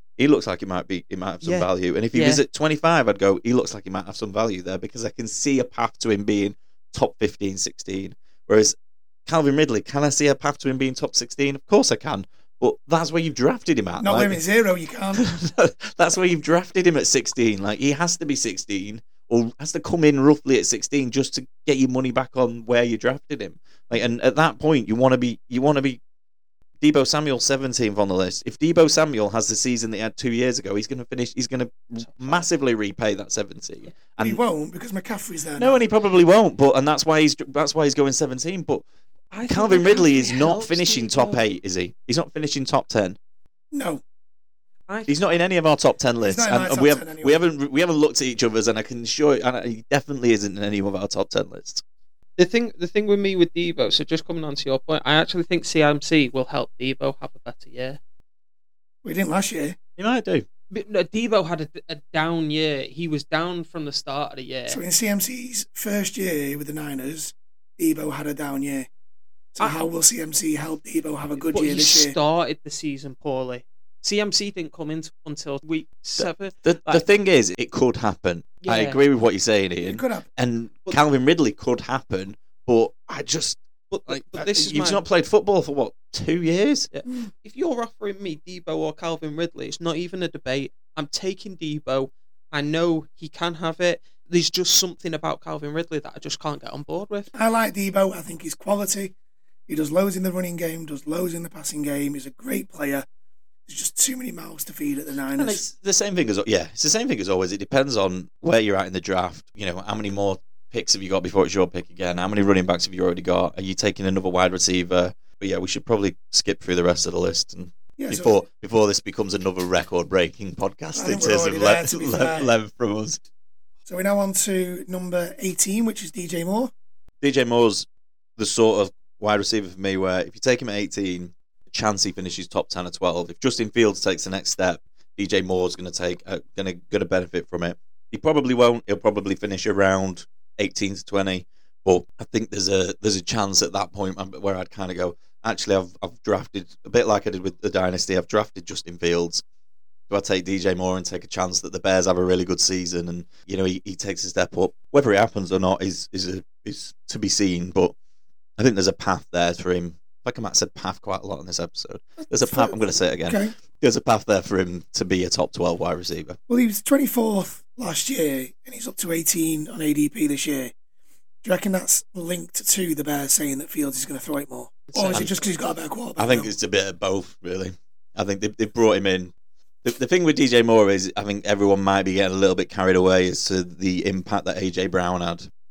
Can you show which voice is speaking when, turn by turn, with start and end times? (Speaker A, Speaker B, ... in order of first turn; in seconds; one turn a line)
Speaker A: 0.2-14.4
Speaker B: 1.4-2.4
Speaker C: 14.0-15.3
Speaker A: 15.2-26.0
Speaker A: 26.8-34.4
Speaker B: 32.1-32.4
Speaker C: 34.2-35.8
Speaker A: 35.6-38.8
Speaker B: 39.3-41.4
Speaker A: 39.5-43.2
Speaker C: 43.7-44.0
Speaker B: 44.9-45.3
Speaker A: 45.1-51.8
Speaker C: 46.2-47.4
Speaker B: 52.4-58.0
Speaker C: 59.0-59.8
Speaker A: 60.0-60.5
Speaker B: 60.7-64.8
Speaker C: 64.7-68.9
Speaker C: 69.5-72.2
Speaker B: 71.4-77.0
Speaker A: 76.2-86.9
Speaker B: 78.6-79.0
Speaker C: 79.8-80.3
Speaker B: 83.9-85.0
Speaker B: 86.9-97.3
Speaker C: 97.3-99.1
Speaker C: 99.7-103.1
Speaker C: 103.7-105.6
Speaker A: 105.4-123.2
Speaker C: 118.0-118.3
Speaker C: 121.0-122.5
Speaker C: 123.9-126.7
Speaker A: 127.2-149.4
Speaker A: 150.1-157.9
Speaker A: 158.6-166.4
Speaker C: 162.4-163.5
Speaker C: 166.5-170.7
Speaker C: 171.4-176.5
Speaker B: 174.9-175.4
Speaker A: 176.2-179.3
Speaker A: 179.8-185.5